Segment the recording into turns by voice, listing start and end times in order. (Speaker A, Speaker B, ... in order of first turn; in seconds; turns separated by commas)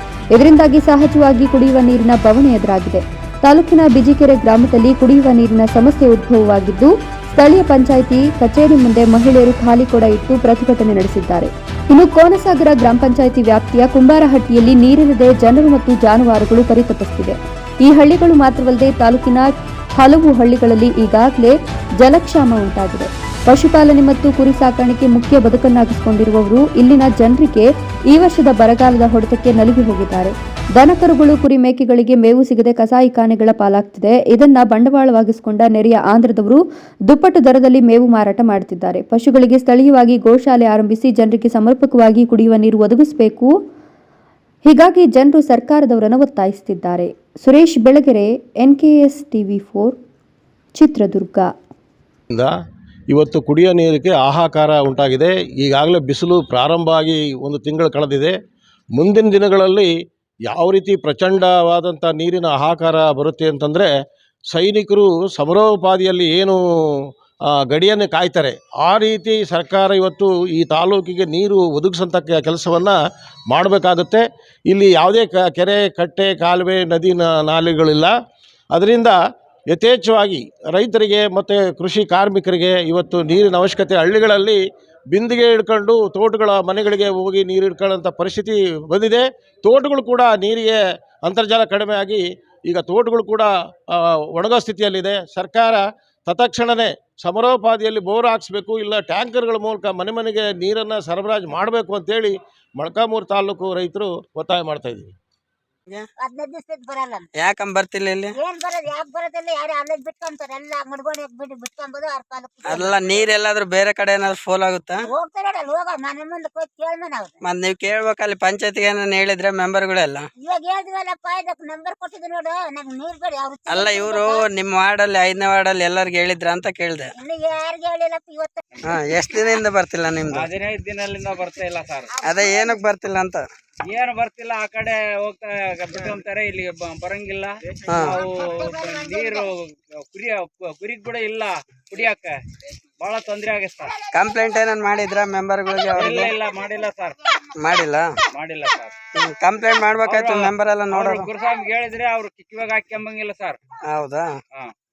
Speaker A: 0.3-43.5, Speaker A: 44.7-50.0, Speaker A: 50.8-51.5, Speaker B: 53.1-58.3, Speaker B: 59.0-59.9, Speaker B: 60.5-63.9, Speaker B: 64.5-73.0, Speaker B: 73.5-78.1, Speaker B: 78.7-79.2, Speaker B: 79.7-84.6, Speaker B: 85.1-105.1, Speaker C: 106.2-107.3, Speaker D: 107.4-108.3, Speaker C: 108.4-113.3, Speaker D: 112.7-115.0, Speaker C: 115.1-117.4, Speaker D: 117.4-120.3, Speaker C: 120.4-124.5, Speaker D: 123.7-127.1, Speaker C: 127.2-129.2, Speaker D: 128.8-130.5, Speaker E: 130.3-132.1, Speaker C: 132.1-132.9, Speaker D: 132.2-133.4, Speaker E: 133.9-142.4, Speaker D: 137.9-138.2, Speaker C: 137.9-139.5, Speaker E: 143.0-144.0, Speaker D: 144.1-146.3, Speaker E: 145.9-147.2, Speaker D: 147.6-148.1, Speaker E: 148.3-149.0, Speaker D: 149.2-151.3, Speaker E: 150.0-153.6, Speaker D: 153.9-154.4